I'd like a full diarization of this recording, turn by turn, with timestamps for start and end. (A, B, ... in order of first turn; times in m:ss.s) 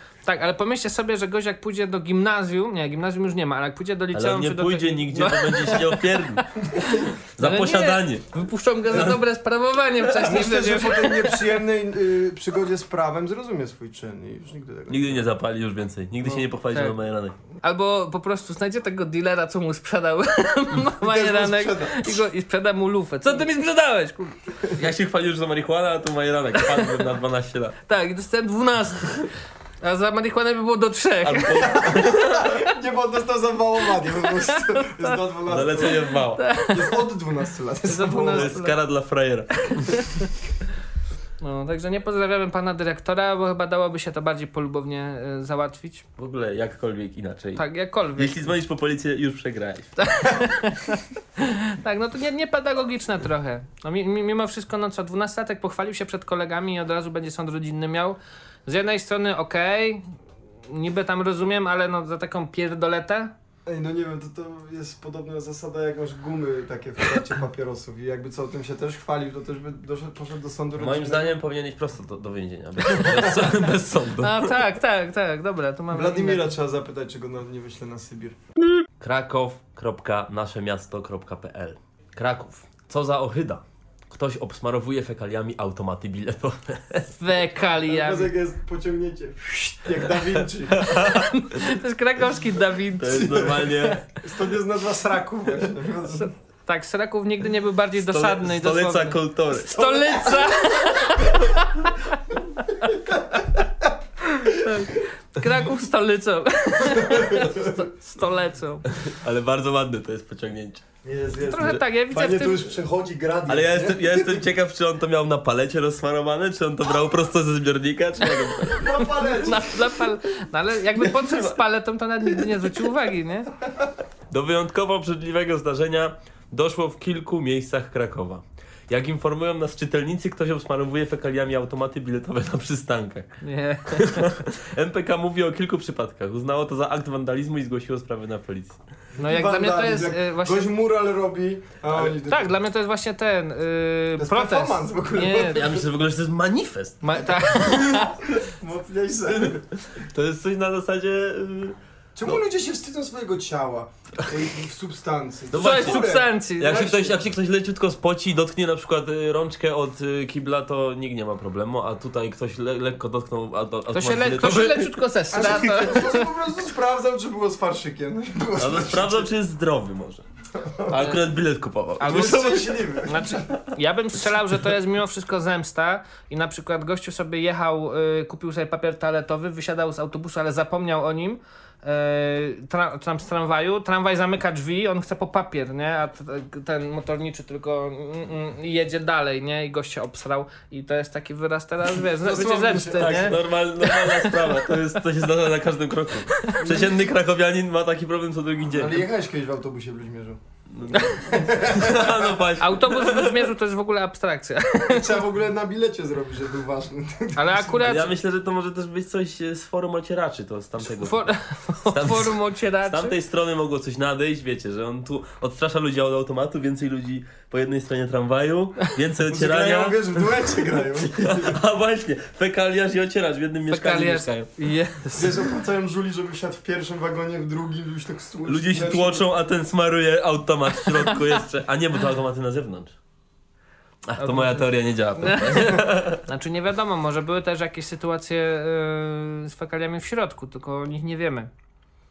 0:00.2-0:06.3 A
0:04.1-0:06.5 B
0:06.6-0:07.1 C
0:06.8-0:11.6 A
0:07.4-0:08.3 B
0:08.9-0:09.2 B
0:10.2-0:15.3 C
0:14.9-0:17.4 B
0:17.6-0:24.4 A
0:21.0-0:22.2 C
0:24.8-0:27.7 B
0:26.7-0:27.0 A
0:27.9-0:31.8 A
0:31.2-0:32.6 B
0:31.6-0:36.0 C
0:34.3-0:35.0 A
0:35.5-0:36.4 B
0:36.4-0:37.0 A
0:36.6-0:38.5 C
0:37.9-0:38.8 A
0:38.2-0:40.0 B
0:39.7-0:40.3 A
0:41.4-0:46.0 A
0:46.2-0:47.6 B
0:47.6-0:48.5 A
0:48.2-0:50.0 B
0:50.0-1:00.1 A
1:00.7-1:03.3 A
1:03.6-1:11.4 C
1:10.8-1:14.5 B
1:13.0-1:13.3 C
1:14.2-1:16.5 A
1:15.9-1:18.4 C
1:19.0-1:27.1 B
1:27.1-1:28.3 A
1:27.9-1:31.0 C
1:30.7-1:31.3 B
1:31.0-1:33.5 A
1:33.0-1:34.0 B
1:33.0-1:36.3 C
1:36.1-1:42.1 A
1:38.0-1:40.0 B
1:39.8-1:41.2 C
1:42.9-1:43.9 C
1:44.3-1:48.9 A
1:46.9-1:47.7 C
1:49.0-1:50.8 B
1:51.0-1:54.4 C
1:51.5-1:52.7 A
1:53.5-1:59.0 B
1:58.6-2:03.5 A
1:58.7-1:59.9 C
2:01.1-2:01.6 B
2:04.3-2:13.3 B
2:13.4-2:14.3 A
2:13.9-2:18.8 B
2:19.1-2:22.5 C
2:19.2-2:20.7 A
2:22.1-2:25.7 A
2:24.2-2:25.8 C
2:25.4-2:27.3 B
2:27.0-2:28.2 A
2:27.6-2:29.6 C
2:29.4-2:31.8 B
2:32.1-2:37.2 C
2:35.5-2:45.6 B
2:35.6-2:37.0 A
2:43.9-2:46.3 A
2:45.3-2:49.3 C
2:48.6-2:50.2 B
2:50.6-2:51.1 C
2:50.9-2:52.7 B
2:52.0-3:14.9 A
2:52.0-2:53.5 C
3:12.1-3:13.4 C
3:13.0-3:19.0 B
3:16.4-3:16.6 A
3:16.6-3:17.1 C
3:18.7-3:20.4 C
3:20.7-3:23.4 B
3:21.2-3:22.4 C
3:22.6-3:25.2 A
3:24.8-3:27.9 C
3:27.4-3:28.1 A
3:27.8-3:31.2 B
3:30.8-3:33.2 A
3:31.8-3:40.5 B
3:39.3-3:41.6 C
3:41.1-3:44.5 B
3:43.7-3:45.4 A
3:45.1-3:49.3 C
3:48.4-3:52.9 B
3:54.1-3:56.2 B
3:54.2-4:01.5 A